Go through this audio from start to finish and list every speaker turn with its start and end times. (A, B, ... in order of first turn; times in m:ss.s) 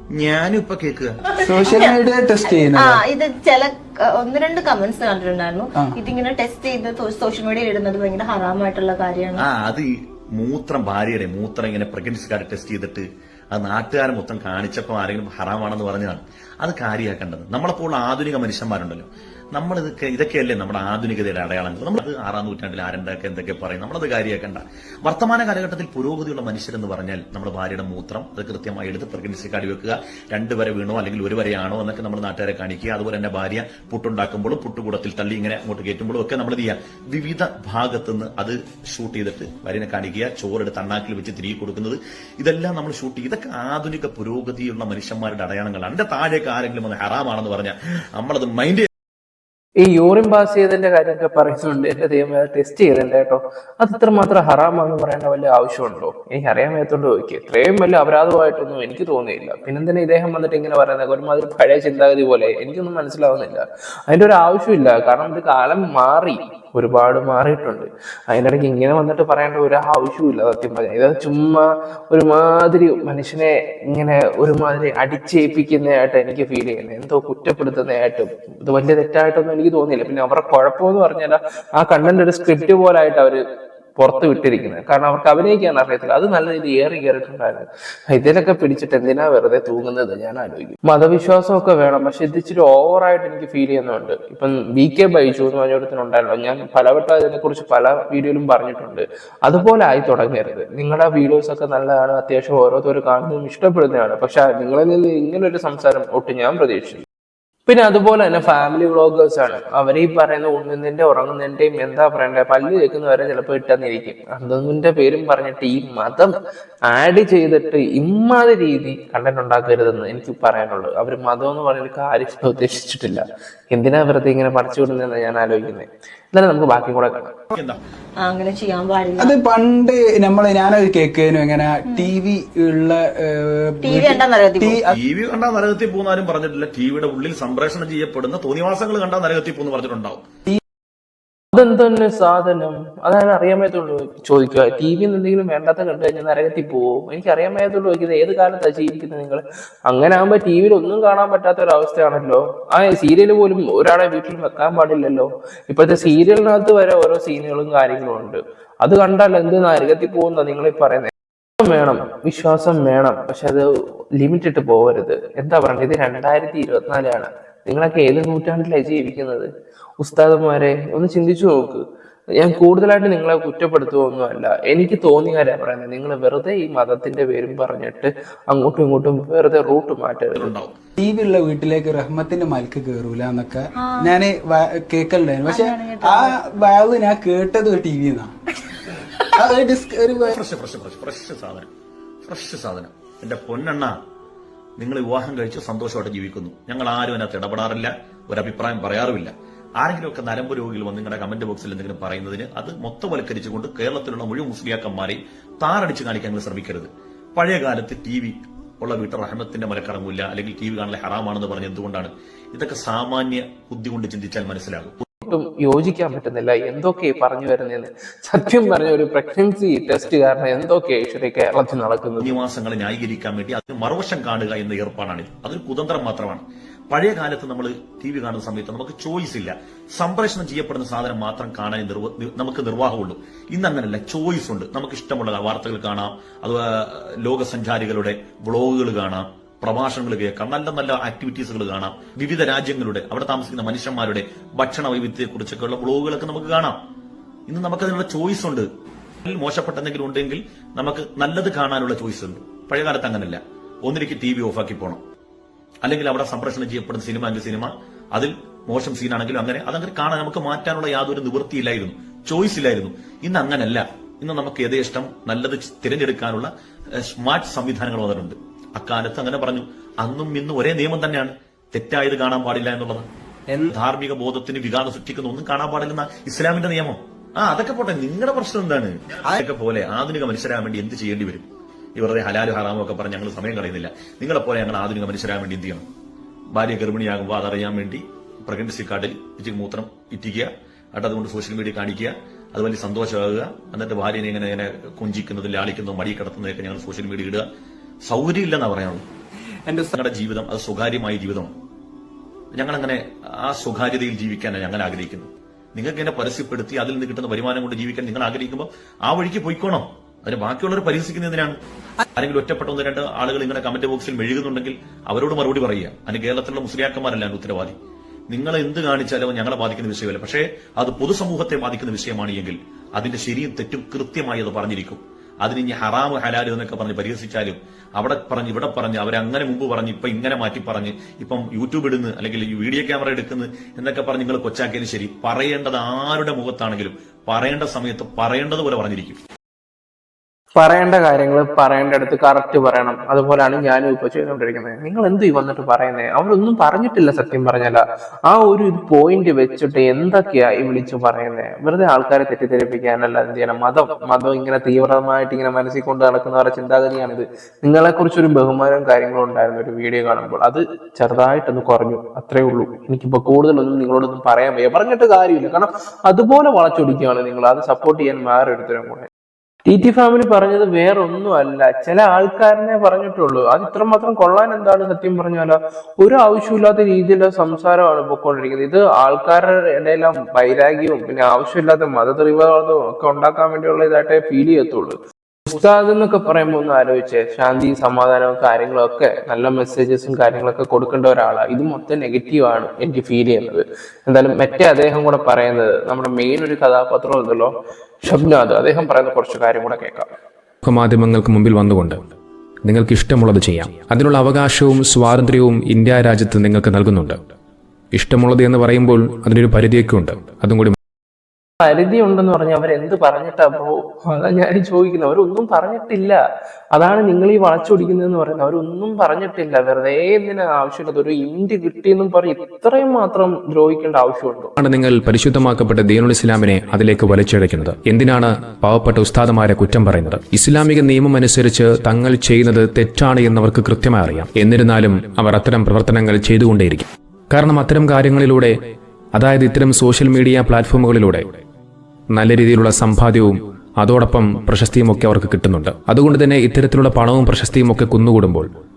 0:00.2-0:01.2 A
0:01.4-0:03.0 B
0:01.6-0:09.4 C
0:09.4-0:48.9 A
0:49.8-1:23.4 D
1:24.0-1:47.0 D
1:47.7-1:56.4 D
1:56.9-2:07.3 D
2:07.5-2:07.8 A
2:08.2-2:09.4 C
2:09.2-2:14.9 B
2:13.8-2:14.8 C
2:14.9-2:20.2 A
2:21.5-2:49.5 D
2:50.0-3:00.5 D
3:00.4-3:00.7 A
3:01.0-3:08.3 B
3:03.8-3:04.1 C
3:05.5-3:06.4 C
3:09.4-3:10.4 B
3:10.2-3:11.7 A
3:12.3-3:13.9 A
3:14.8-3:35.0 A
3:35.2-3:42.4 D
3:42.2-4:06.8 A
4:07.5-4:08.7 A
4:09.2-4:15.0 A
4:15.8-4:26.5 A
4:27.0-4:33.1 A
4:33.7-4:45.9 A
4:46.6-4:57.4 A
4:58.1-4:59.0 A
5:00.0-5:01.5 A
5:02.6-5:11.6 A
5:12.2-5:17.8 A
5:18.3-5:39.2 A
5:40.6-6:09.1 D
6:09.7-6:37.5 D
6:38.0-6:40.1 D
6:40.6-6:42.0 E
6:42.7-6:47.2 E
6:47.9-6:50.8 E
6:51.6-6:56.2 D
6:56.7-7:04.5 D
7:04.6-7:18.5 E
7:19.2-7:21.3 E
7:22.2-7:28.5 E